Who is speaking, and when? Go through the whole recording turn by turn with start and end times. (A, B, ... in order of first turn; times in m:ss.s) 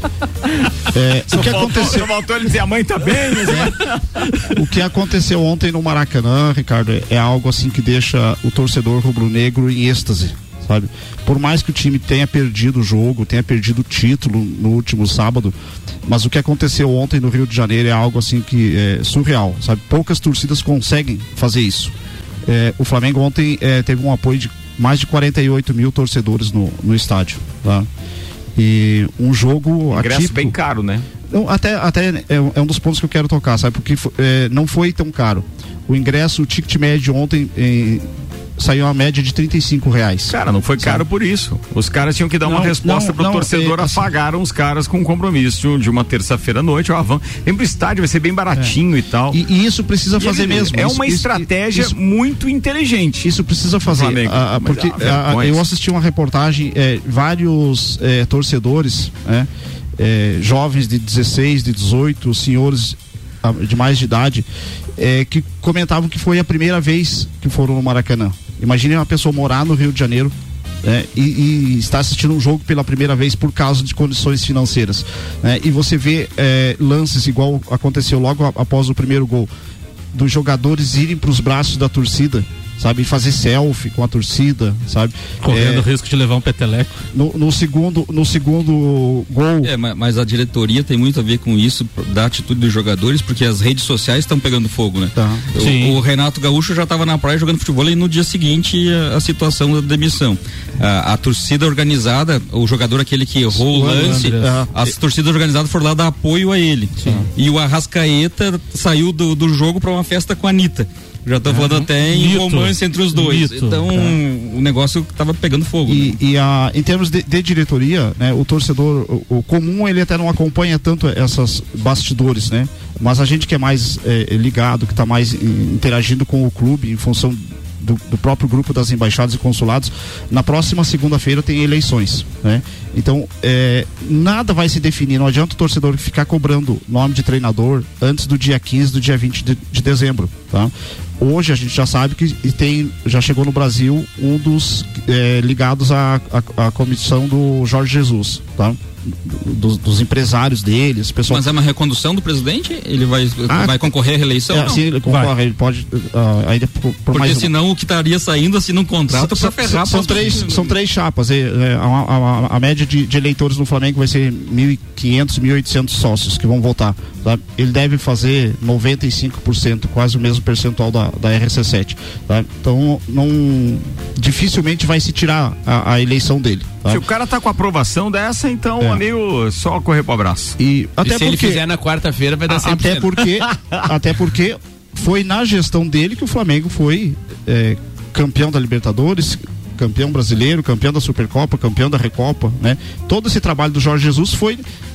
0:00.9-0:02.1 A
0:01.3-0:04.3 B
0:04.5-0:21.9 A
0:22.5-0:27.9 A
0:28.6-0:30.6 A
0:29.9-0:31.1 B
0:31.3-0:38.1 A
0:38.6-0:41.0 A
0:40.3-0:49.4 B
0:42.4-0:44.1 A
0:49.3-0:52.0 A
0:50.2-0:53.3 B
0:53.2-1:19.5 A
0:53.8-0:55.6 B
1:20.1-1:25.9 A
1:25.4-1:27.0 C
1:27.1-1:29.7 A
1:29.6-1:56.2 D
1:35.2-1:35.5 A
1:35.6-1:36.0 C
1:43.5-1:44.9 A
1:43.9-1:44.7 C
1:47.0-1:47.3 C
1:51.7-1:53.9 C
1:55.9-2:31.5 A
2:31.3-2:34.8 D
2:33.5-2:33.9 A
2:34.5-2:37.5 A
2:37.1-2:40.8 D
2:39.1-2:57.0 A
2:56.9-3:00.6 B
3:00.6-3:01.6 A
3:01.0-3:03.2 E
3:02.5-3:14.6 A
3:02.8-3:03.9 B